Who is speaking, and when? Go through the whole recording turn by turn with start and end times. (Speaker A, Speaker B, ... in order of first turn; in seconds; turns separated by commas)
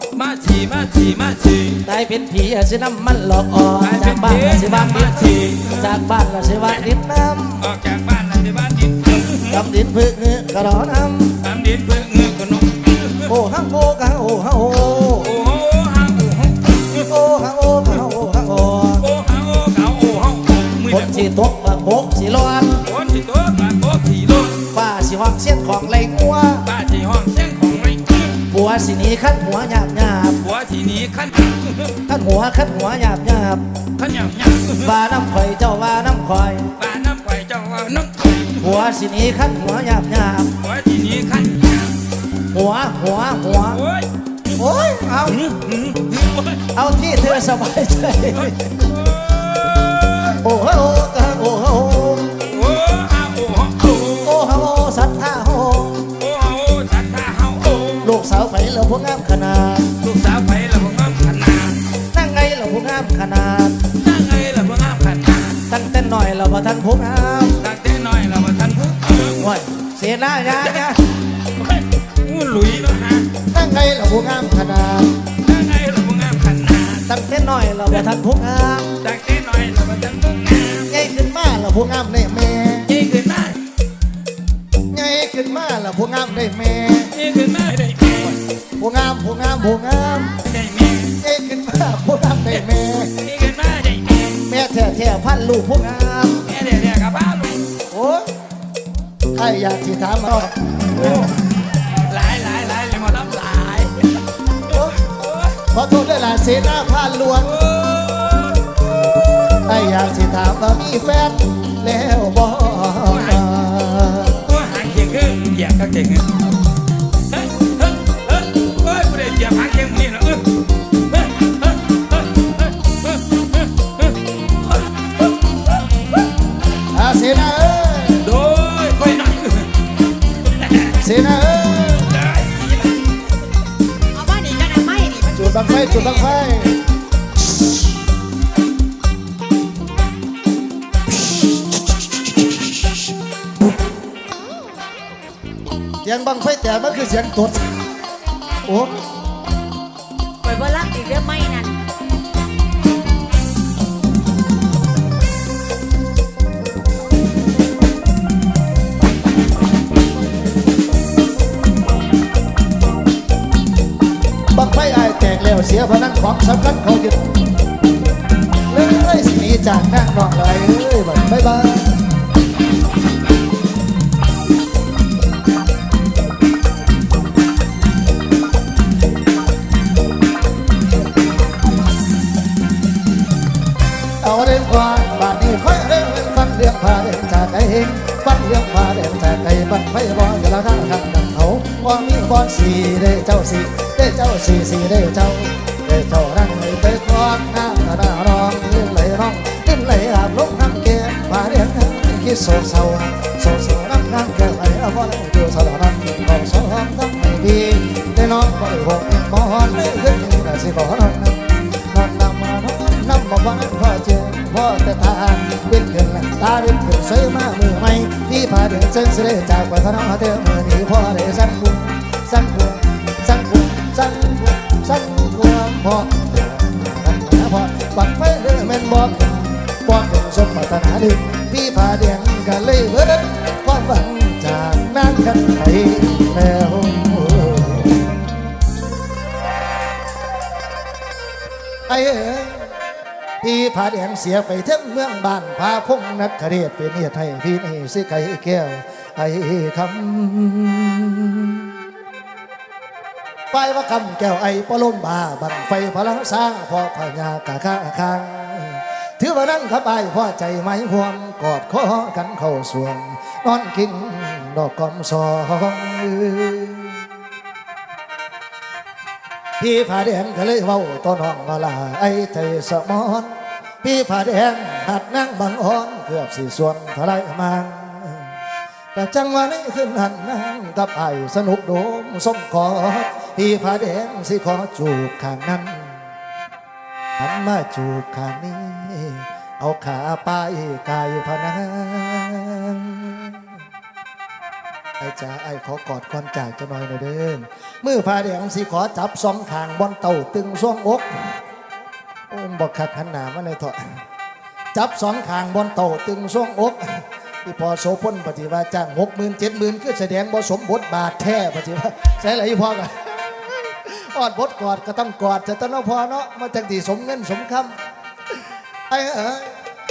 Speaker A: 0.1-1.8, Speaker B: 1.9-7.7, Speaker A: 3.8-6.0, Speaker A: 7.6-9.7, Speaker B: 9.5-11.4, Speaker A: 11.4-13.3, Speaker B: 13.3-15.3, Speaker A: 15.2-17.0, Speaker B: 17.0-19.1, Speaker A: 19.0-21.3, Speaker B: 20.9-22.8, Speaker A: 22.8-24.6, Speaker B: 24.7-26.7, Speaker A: 26.6-28.4, Speaker B: 28.5-30.4, Speaker A: 30.4-32.0, Speaker B: 32.1-33.6, Speaker A: 34.0-34.9, Speaker B: 34.8-36.7, Speaker A: 36.8-38.8, Speaker B: 38.6-40.5, Speaker A: 40.6-42.0, Speaker B: 42.5-43.8, Speaker A: 43.7-44.1, Speaker B: 44.6-45.4, Speaker A: 45.2-46.7, Speaker B: 46.7-48.7, Speaker A: 48.3-50.4, Speaker B: 50.4-52.4, Speaker A: 52.4-54.3, Speaker B: 54.2-56.1, Speaker A: 56.2-58.1, Speaker B: 58.0-59.9, Speaker A: 60.0-61.8, Speaker B: 62.1-63.8, Speaker A: 64.0-65.6, Speaker B: 65.7-67.6, Speaker A: 67.6-69.5, Speaker B: 69.3-71.0, Speaker A: 70.5-73.3, Speaker B: 73.5-75.1, Speaker A: 75.4-77.1, Speaker B: 77.1-78.9, Speaker A: 79.0-80.9, Speaker B: 80.9-82.9, Speaker A: 82.9-83.6, Speaker B: 84.9-87.1, Speaker A: 87.1-88.4, Speaker B: 88.8-90.4, Speaker A: 90.4-91.2, Speaker B: 91.2-93.1, Speaker A: 93.2-94.4, Speaker B: 94.4-96.5, Speaker A: 96.5-97.8, Speaker B: 97.9-98.3, Speaker B: 99.3-101.3, Speaker A: 101.0-101.3, Speaker A: 102.0-104.2, Speaker B: 104.7-105.1, Speaker A: 105.0-105.6, Speaker B: 105.7-107.6, Speaker A: 107.4-108.8, Speaker B: 109.7-114.5, Speaker A: 113.1-113.5, Speaker A: 114.4-116.5, Speaker A: 117.3-124.1, Speaker B: 126.9-128.3, Speaker A: 128.2-129.7, Speaker A: 130.6-130.9, Speaker B: 131.0-132.2, Speaker A: 132.0-133.1, Speaker C: 134.1-136.4, Speaker B: 135.3-136.8, Speaker B: 146.0-147.8, Speaker B: 148.7-149.0, Speaker C: 150.4-151.8, Speaker B: 164.5-167.3, Speaker B: 168.7-172.0, Speaker B: 184.2-238.1, Speaker B: 241.9-242.8, Speaker B: 243.4-251.7, Speaker B: 253.5-267.0, Speaker B: 269.6-278.3, Speaker B: 278.9-286.0, Speaker B: 287.2-293.4, Speaker B: 295.0-301.3, Speaker B: 302.3-304.0, Speaker B: 304.7-317.7, Speaker B: 318.9-319.5